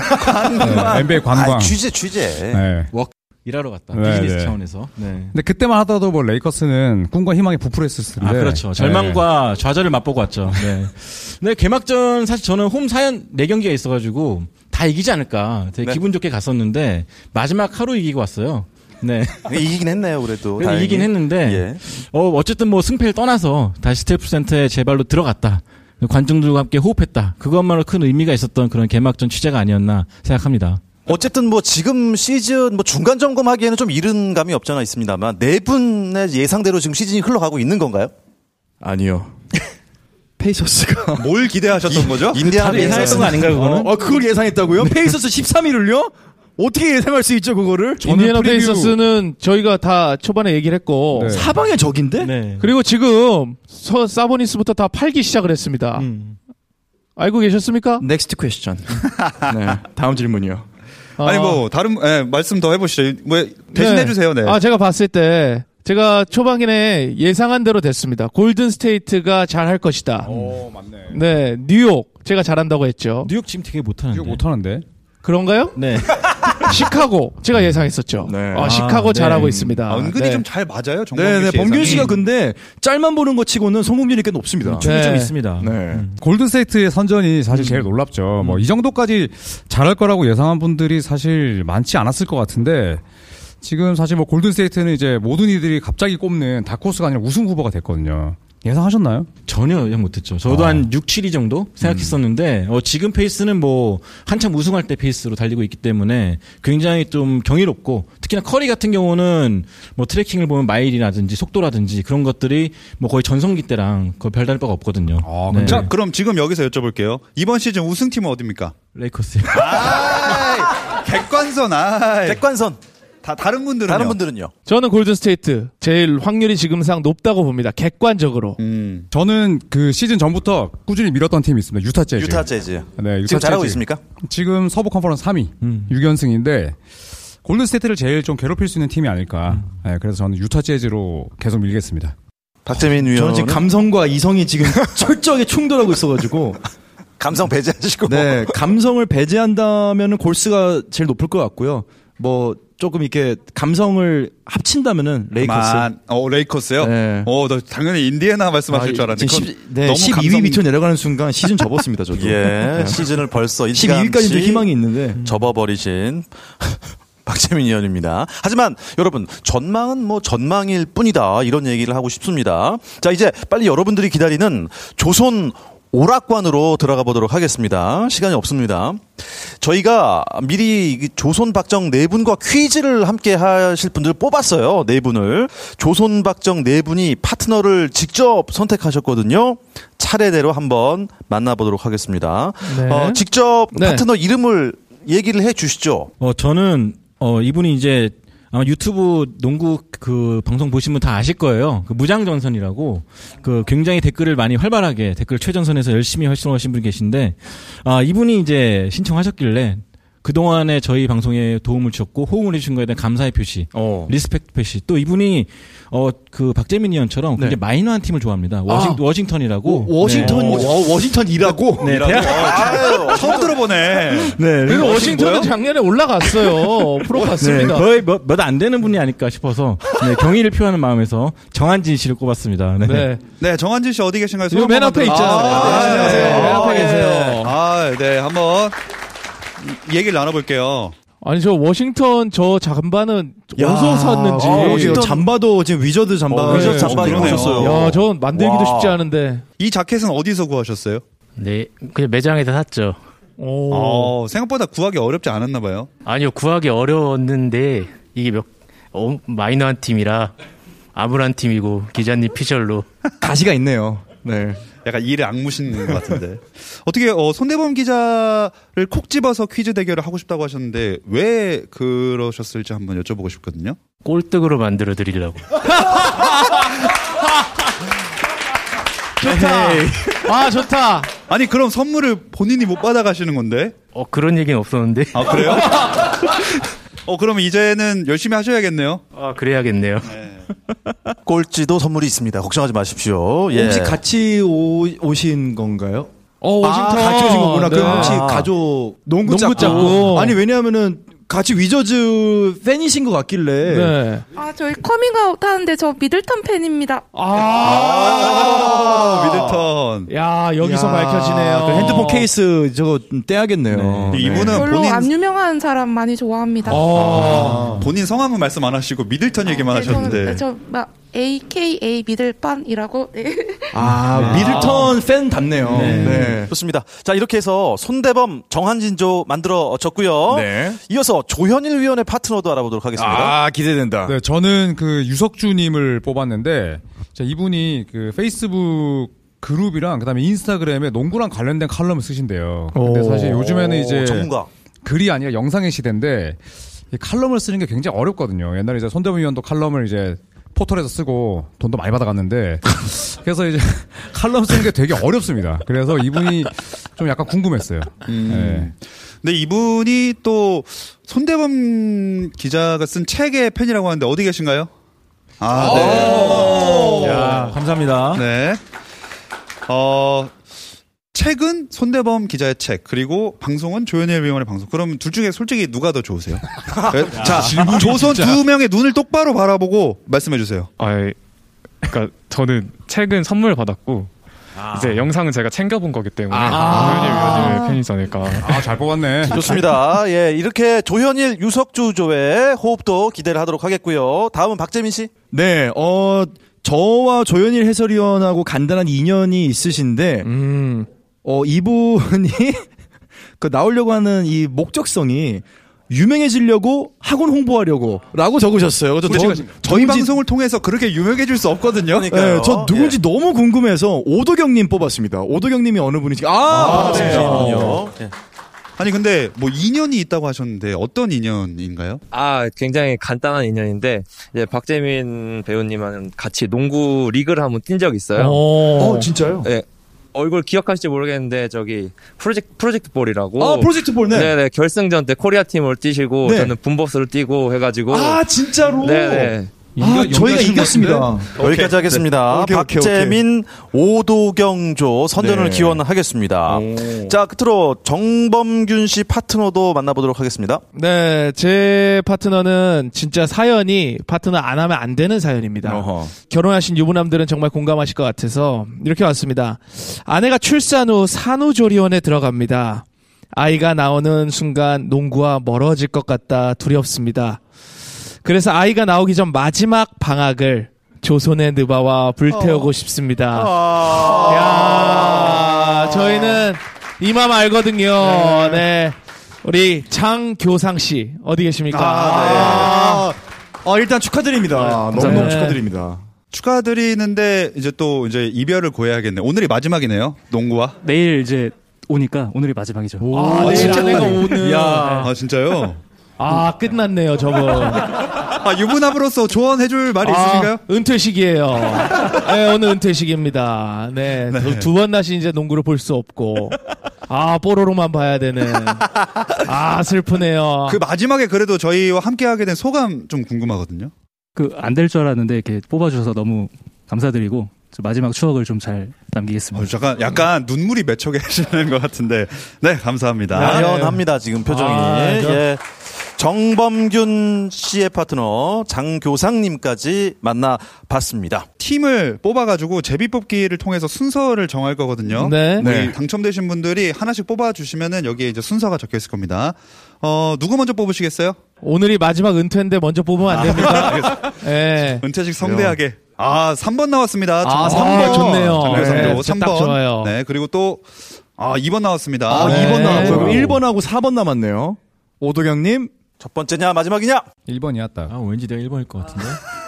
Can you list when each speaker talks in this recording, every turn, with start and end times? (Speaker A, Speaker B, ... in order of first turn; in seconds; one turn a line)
Speaker A: 0.2-1.1
Speaker B: 0.3-2.6
Speaker C: 0.6-1.8
Speaker C: 2.5-2.9
Speaker D: 2.9-5.3
Speaker C: 3.9-4.6
Speaker C: 5.3-9.2
Speaker D: 8.2-19.6
Speaker B: 19.4-21.8
Speaker D: 20.6-30.8
Speaker B: 31.1-38.1
Speaker E: 38.8-39.4
Speaker E: 40.4-41.4
Speaker A: 41.1-43.2
Speaker B: 42.1-43.8
Speaker D: 42.4-43.9
Speaker E: 42.8-48.1
Speaker C: 48.0-49.0
Speaker F: 48.0-51.4
Speaker C: 51.1-51.5
Speaker E: 51.2-52.3
Speaker D: 52.2-52.7
Speaker F: 52.6-56.0
Speaker D: 56.0-56.4
Speaker F: 57.2-58.0
Speaker E: 58.0-60.6
Speaker A: 59.0-59.5
Speaker F: 61.2-61.6
Speaker A: 61.2-64.6
Speaker F: 63.7-70.3
Speaker C: 70.2-71.1
Speaker F: 71.1-73.3
Speaker D: 73.2-74.4
Speaker C: 74.1-74.8
Speaker F: 75.2-75.8
Speaker D: 75.8-76.7
Speaker F: 76.6-80.4
Speaker E: 78.2-78.8
Speaker D: 78.6-79.8
Speaker A: 79.9-82.2
Speaker E: 81.1-86.1
Speaker D: 81.8-82.1
Speaker D: 84.6-86.2
Speaker F: 84.8-85.3
Speaker C: 86.2-93.0
Speaker D: 87.5-87.9
Speaker D: 88.4-88.6
Speaker C: 93.6-99.3
Speaker D: 99.5-115.9
Speaker C: 100.5-100.9
Speaker C: 101.8-102.2
Speaker C: 115.2-115.9
Speaker A: 115.6-118.7
Speaker D: 118.9-119.9
Speaker A: 119.5-122.4
Speaker B: 119.7-120.5
Speaker B: 122.2-122.8
Speaker A: 123.2-124.2
Speaker B: 123.9-124.5
Speaker F: 124.7-128.6
Speaker A: 128.6-129.1
Speaker C: 129.1-136.8
Speaker B: 132.1-134.0
Speaker D: 135.6-135.9
Speaker C: 137.4-142.1
Speaker B: 142.6-143.6
Speaker E: 143.0-146.6
Speaker B: 147.2-148.6
Speaker E: 148.1-155.9
Speaker A: 155.4-160.6
Speaker E: 156.8-157.3
Speaker E: 158.7-163.0
Speaker B: 162.1-196.1
Speaker E: 163.7-165.2
Speaker F: 192.6-194.0
Speaker D: 196.2-220.8
Speaker E: 213.7-214.1
Speaker E: 218.7-219.0
Speaker E: 219.6-222.5
Speaker A: 220.2-220.6
Speaker D: 221.8-222.8
Speaker A: 221.8-225.5
Speaker B: 222.1-223.5
Speaker E: 224.1-225.5
Speaker F: 224.6-227.8
Speaker E: 227.3-227.8
Speaker D: 227.4-233.1
Speaker F: 232.8-233.2
Speaker A: 233.4-238.7
Speaker F: 234.5-237.5
Speaker E: 235.1-236.8
Speaker A: 239.6-240.9
Speaker F: 241.2-245.1
Speaker E: 243.6-247.9
Speaker B: 244.4-245.2
Speaker A: 246.3-247.8
Speaker B: 246.4-248.9
Speaker F: 246.5-249.4
Speaker A: 249.6-251.0
Speaker G: 251.4-253.0
Speaker F: 253.4-254.1
Speaker A: 253.7-255.9
Speaker G: 256.0-260.3
Speaker G: 260.9-262.9
Speaker E: 263.2-264.6
Speaker A: 264.8-273.8
Speaker G: 274.0-275.5
Speaker F: 275.7-276.6
Speaker F: 279.2-281.1
Speaker E: 279.3-280.0
Speaker A: 281.3-283.7
Speaker G: 283.9-285.6
Speaker A: 285.1-286.3
Speaker A: 287.1-289.0
Speaker G: 289.1-290.1
Speaker A: 290.1-290.4
Speaker B: 291.2-294.0
Speaker E: 293.5-296.1
Speaker F: 296.4-298.2
Speaker E: 296.6-303.9
Speaker B: 297.9-298.5
Speaker F: 299.2-300.4
Speaker F: 303.6-304.2
Speaker H: 304.3-307.1
Speaker F: 307.1-308.4
Speaker A: 307.6-310.1
Speaker E: 307.7-309.6
Speaker F: 310.1-312.3
Speaker E: 310.6-314.7
Speaker D: 313.7-314.6
Speaker A: 314.1-315.1
Speaker H: 314.5-316.9
Speaker F: 316.6-317.8
Speaker A: 317.0-320.4
Speaker E: 317.0-317.9
Speaker H: 319.5-323.8
Speaker E: 323.7-326.5
Speaker A: 324.1-324.9
Speaker A: 325.7-326.4
Speaker B: 325.8-333.4
Speaker E: 330.3-330.8
Speaker E: 332.9-334.1
Speaker C: 334.1-344.3
Speaker F: 342.7-343.4
Speaker B: 343.3-344.5
Speaker C: 344.8-346.4
Speaker C: 346.9-358.7
Speaker A: 358.1-364.7
Speaker A: 365.4-367.4
Speaker E: 365.5-367.5
Speaker D: 365.6-368.2
Speaker A: 368.1-368.6
Speaker A: 369.7-370.3
Speaker A: 371.1-380.7
Speaker E: 376.9-378.4
Speaker D: 377.2-378.3
Speaker I: 380.8-381.2
Speaker I: 381.8-384.1
Speaker I: 384.7-388.7
Speaker E: 386.4-387.5
Speaker F: 386.5-387.7
Speaker C: 386.9-387.5
Speaker C: 388.4-389.6
Speaker B: 389.3-395.1
Speaker E: 395.3-400.3
Speaker F: 400.2-400.9
Speaker E: 401.2-402.6
Speaker E: 403.4-410.2
Speaker A: 409.0-412.1
Speaker B: 411.9-413.0
Speaker E: 412.1-417.8
Speaker B: 416.4-418.1
Speaker A: 418.8-422.0
Speaker J: 422.1-428.4
Speaker F: 428.2-429.1
Speaker E: 428.8-429.5
Speaker J: 429.4-438.2
Speaker E: 433.4-434.4
Speaker E: 436.2-436.5
Speaker E: 437.9-443.2
Speaker J: 438.9-439.6
Speaker C: 439.8-441.1
Speaker B: 441.4-450.6
Speaker E: 445.2-445.8
Speaker E: 446.5-447.2
Speaker F: 450.7-467.4
Speaker E: 455.6-456.1
Speaker F: 468.2-473.5
Speaker E: 472.3-472.7
Speaker E: 473.3-476.4
Speaker B: 473.9-474.3
Speaker F: 474.2-483.1
Speaker E: 478.0-478.6
Speaker E: 481.7-486.0
Speaker B: 482.1-482.5
Speaker A: 482.2-482.5
Speaker F: 484.9-485.6
Speaker K: 485.0-485.3
Speaker A: 486.3-490.8
Speaker K: 490.8-495.0
Speaker E: 493.0-495.1
Speaker F: 493.1-495.0
Speaker A: 495.0-495.8
Speaker F: 496.2-498.0
Speaker A: 498.1-500.6
Speaker F: 500.0-506.6
Speaker A: 504.3-504.7
Speaker F: 507.1-508.9
Speaker F: 509.4-510.8
Speaker A: 510.7-513.9
Speaker K: 514.4-519.7
Speaker A: 519.5-523.7
Speaker F: 523.3-525.4
Speaker B: 523.3-531.5
Speaker A: 531.6-541.4
Speaker F: 535.2-535.7
Speaker E: 535.6-536.0
Speaker F: 541.6-545.0
Speaker A: 543.3-544.4
Speaker A: 544.9-553.5
Speaker E: 545.4-545.8
Speaker E: 547.4-549.2
Speaker F: 547.4-550.1
Speaker E: 552.3-555.9
Speaker F: 552.3-553.3
Speaker B: 556.2-557.3
Speaker C: 557.5-558.1
Speaker D: 558.1-559.4